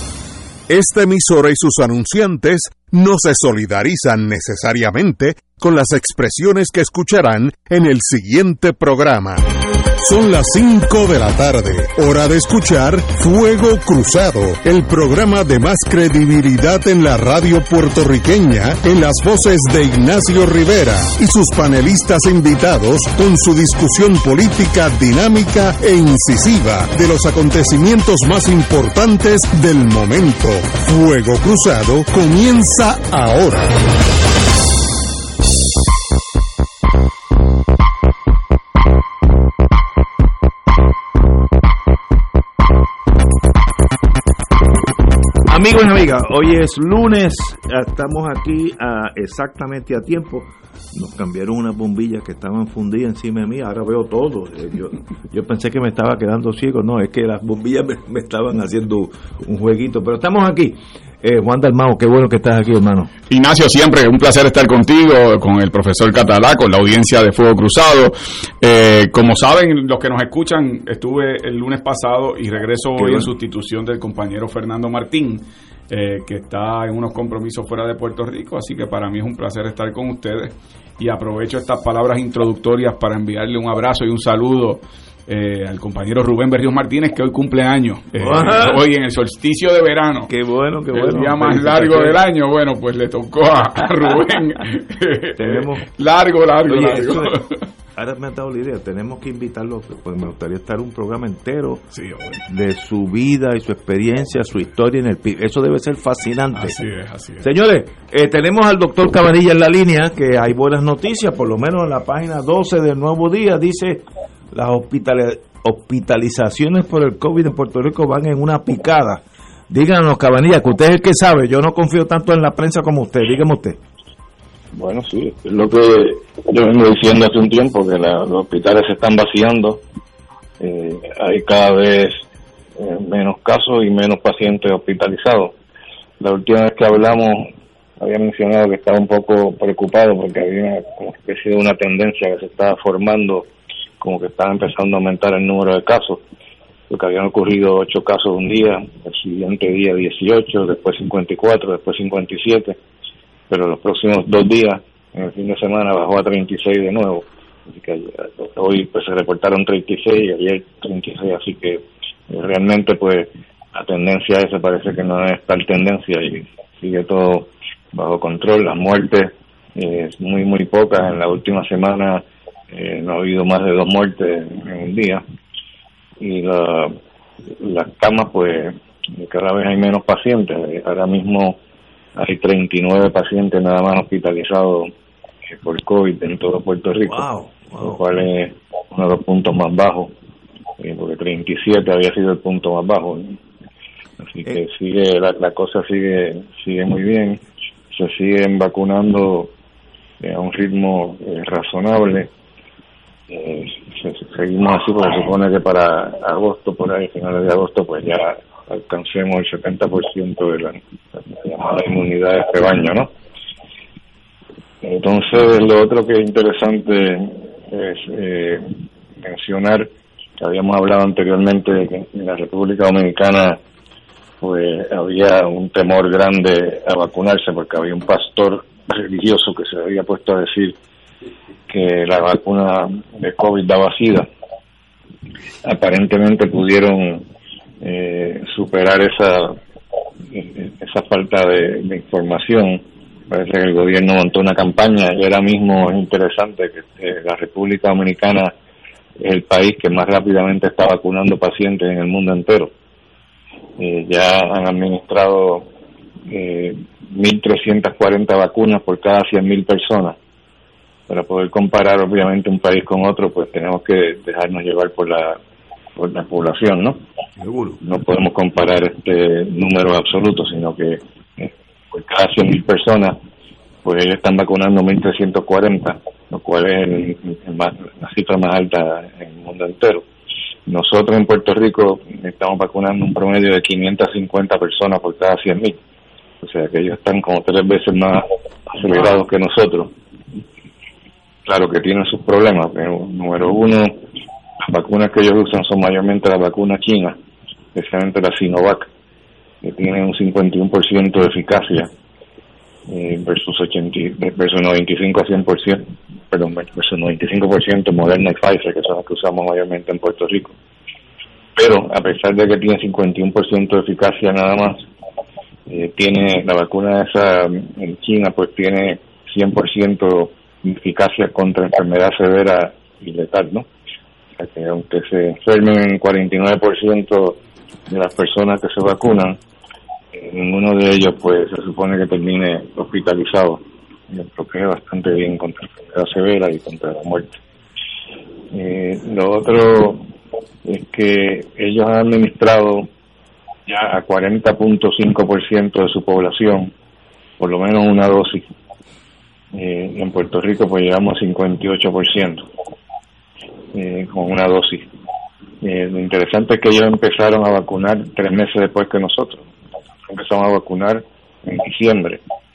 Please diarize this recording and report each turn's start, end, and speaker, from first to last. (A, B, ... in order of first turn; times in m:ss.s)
0:00.7-0:33.7 A
0:45.5-1:03.1 B
1:03.3-1:30.3 C
1:13.0-1:13.3 B
1:28.2-1:28.8 B
1:30.3-1:32.2 B
1:30.9-1:37.6 C
1:35.4-1:35.9 B
1:36.7-1:37.4 B
1:38.0-1:41.8 B
1:41.9-1:42.4 C
1:42.5-1:46.8 B
1:46.6-1:47.5 C
1:47.4-2:03.8 B
2:04.7-2:09.8 D
2:10.6-2:12.2 D
2:12.8-2:15.5 D
2:16.2-2:17.5 D
2:18.0-2:23.5 D
2:24.0-2:26.2 D
2:26.9-2:32.8 D
2:33.5-2:55.2 D
2:56.2-2:57.0 D
2:57.6-3:01.6 D
3:02.2-3:04.9 D
3:05.5-3:07.3 D
3:07.0-3:08.0 B
3:07.8-3:10.1 D
3:10.8-3:13.4 D
3:14.2-3:17.4 D
3:17.9-3:19.5 D
3:20.2-3:22.3 D
3:23.3-3:33.1 D
3:34.8-3:38.6 D
3:39.2-3:39.9 D
3:40.4-3:43.6 D
3:44.4-3:50.8 D
3:51.7-3:54.3 D
3:55.6-3:57.2 D
3:57.8-3:59.6 D
4:00.3-4:08.5 D
4:09.2-4:12.7 D
4:13.8-4:15.7 D
4:16.3-4:20.2 D
4:21.1-4:25.4 D
4:26.0-4:27.0 D
4:27.4-4:27.8 B
4:27.8-4:33.2 D
4:33.8-4:40.0 D
4:40.7-4:45.8 D
4:46.4-4:49.9 D
4:51.5-4:54.0 D
4:54.6-4:57.2 D
4:57.8-4:58.9 D
4:59.6-5:01.9 D
5:02.9-5:10.6 D
5:11.6-5:14.8 D
5:15.7-5:23.7 D
5:24.4-5:27.4 D
5:27.9-5:29.4 D
5:30.1-5:37.3 D
5:38.5-5:40.0 D
5:40.6-5:42.9 D
5:43.7-5:46.7 D
5:47.4-5:48.5 D
5:49.5-5:52.5 D
5:53.7-5:54.9 D
5:55.6-5:59.5 D
6:00.1-6:02.2 D